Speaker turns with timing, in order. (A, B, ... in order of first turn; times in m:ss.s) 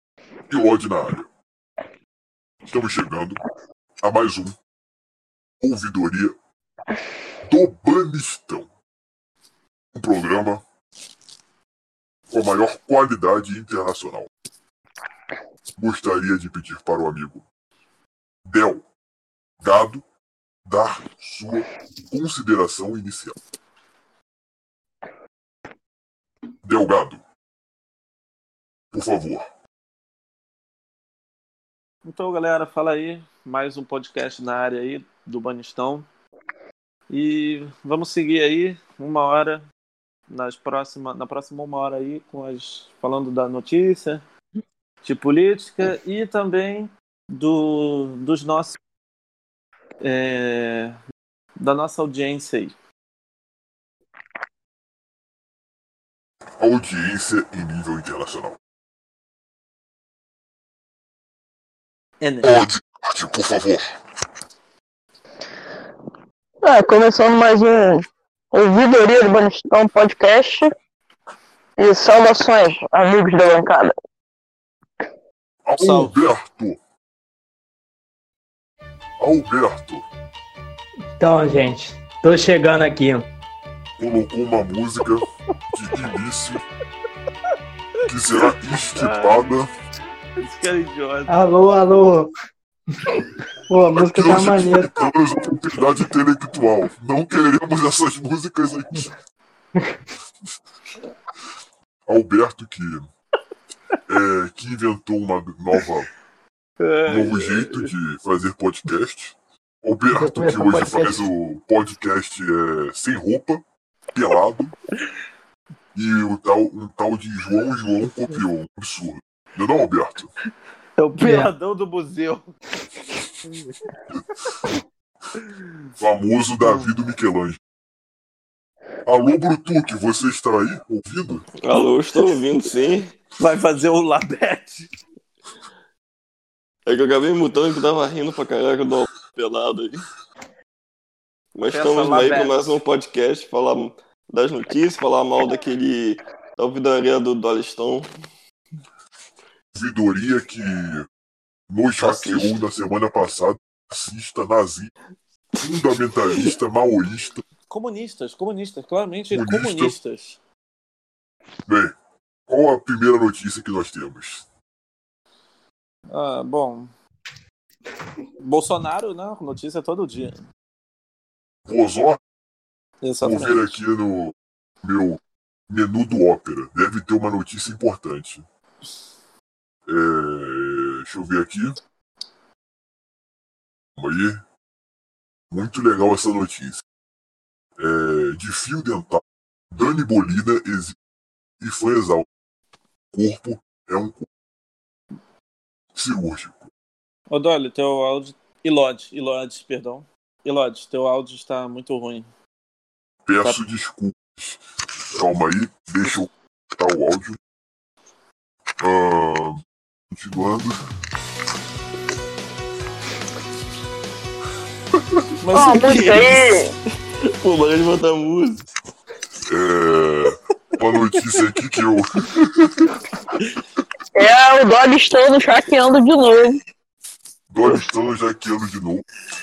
0:00.5-0:01.3 A
0:02.6-0:03.4 A
0:04.0-0:04.6 A
0:05.6-0:06.4 A
0:07.4-0:08.7 A
0:09.9-0:10.6 A
0:12.3-0:14.3 A
0:15.8-0:17.4 A
0:18.5-0:18.8 A
0:19.6-0:20.0 A
0:20.6-0:23.3 A
0:26.6-0:27.2 A
0:28.9-0:29.5 A
0:32.0-0:36.1 B
0:37.1-0:39.6 B
0:40.3-0:44.2 B
0:45.0-0:48.8 B
0:50.0-0:51.0 B
0:51.6-0:52.7 B
0:56.6-0:58.6 A
1:02.2-1:02.6 B
1:02.4-1:03.9 A
1:06.6-1:10.7 C
1:11.8-1:13.9 C
1:15.6-1:16.8 A
1:15.8-1:16.1 B
1:19.2-1:20.0 A
1:21.2-1:23.3 D
1:24.0-1:26.6 A
1:28.0-1:29.7 A
1:28.4-1:29.5 B
1:30.4-1:31.4 B
1:31.3-1:32.3 D
1:33.0-1:35.0 D
1:34.0-1:39.1 A
1:42.1-1:43.1 A
1:44.1-1:46.1 A
1:46.8-1:47.9 B
1:47.1-1:54.7 A
1:50.1-1:51.2 D
1:55.9-2:00.3 A
2:01.0-2:02.5 B
2:01.2-2:01.5 D
2:03.4-2:03.7 B
2:06.0-2:07.6 A
2:09.0-2:11.4 A
2:11.6-2:13.2 E
2:13.4-2:14.9 B
2:16.8-2:20.0 E
2:21.5-2:28.1 E
2:21.7-2:22.7 B
2:29.7-2:31.1 A
2:31.7-2:34.9 A
2:32.0-2:32.6 E
2:35.6-2:37.4 A
2:37.7-2:40.4 B
2:39.3-2:40.0 A
2:41.7-2:41.9 A
2:42.5-2:44.4 A
2:46.1-2:46.9 B
2:48.4-2:50.4 B
2:51.7-2:52.2 A
2:53.0-2:53.8 B
2:53.2-2:58.4 A
2:59.9-3:01.8 A
3:04.0-3:04.4 A
3:05.5-3:06.8 A
3:07.8-3:11.0 A
3:11.6-3:12.3 A
3:13.1-3:14.3 A
3:15.9-3:16.7 A
3:17.3-3:22.3 B
3:23.2-3:24.6 A
3:25.1-3:27.4 A
3:28.8-3:29.6 A
3:30.1-3:30.8 A
3:35.4-3:36.4 B
3:35.5-3:36.7 C
3:37.2-3:38.6 E
3:39.4-3:43.0 A
3:44.1-3:46.6 C
3:47.5-3:49.0 A